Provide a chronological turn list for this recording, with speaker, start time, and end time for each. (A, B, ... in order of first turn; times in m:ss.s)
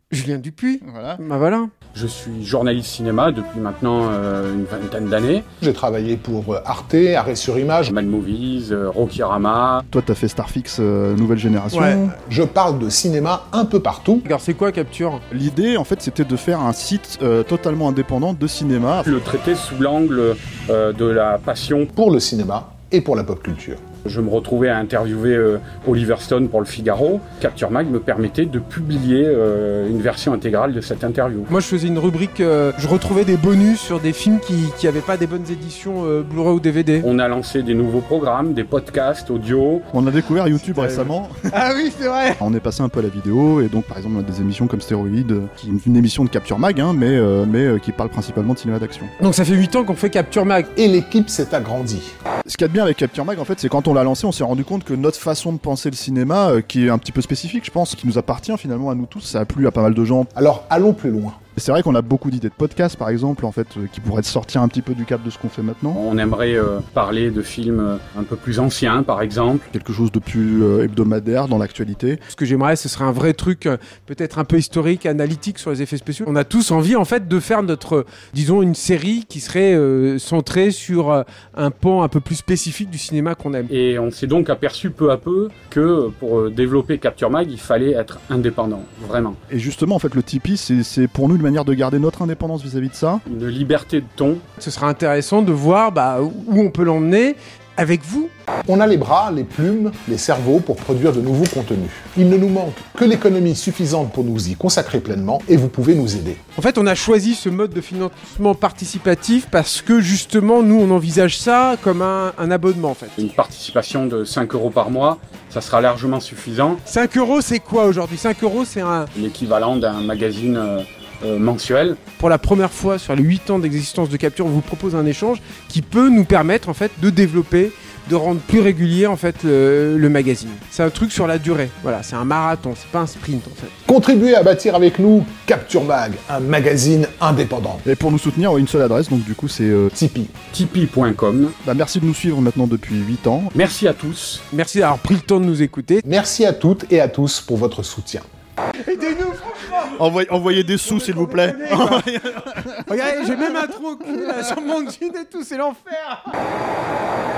0:00.1-0:01.7 A
0:00.8-0:01.2 B
0:01.9-0:05.4 C
0:05.6-0:08.0 D
0:07.8-0:09.8 C
0:09.9-0:12.1 B
0:11.7-0:12.1 A
0:12.3-0:14.3 D
0:14.3-0:15.2 A
0:15.3-0:19.1 B
0:19.0-0:21.9 C
0:22.0-0:23.8 D
0:24.0-0:31.5 C
0:31.5-0:37.1 A
0:37.0-0:39.8 C
0:39.9-0:41.3 B
0:40.5-0:42.4 A
0:42.4-0:49.1 B
0:49.2-0:50.7 A
0:50.8-0:52.1 D
0:52.5-1:00.3 B
1:00.4-1:01.4 D
1:01.6-1:06.0 B
1:06.0-1:09.7 C
1:09.7-1:12.2 B
1:12.3-1:23.7 A
1:23.7-1:29.4 C
1:29.5-1:33.2 B
1:33.3-1:34.4 C
1:34.6-1:38.3 A
1:38.7-1:46.4 D
1:46.6-1:53.2 A
1:53.2-1:56.8 C
1:56.9-1:59.1 A
1:59.2-2:02.0 C
2:02.2-2:13.7 A
2:13.9-2:17.8 D
2:17.9-2:19.9 B
2:19.9-2:20.3 D
2:20.5-2:21.6 C
2:21.6-2:23.5 B
2:23.5-2:24.4 C
2:24.5-2:26.0 A
2:26.0-2:28.3 D
2:28.8-2:29.8 A
2:29.9-2:32.9 B
2:31.0-2:32.0 A
2:32.8-2:36.3 A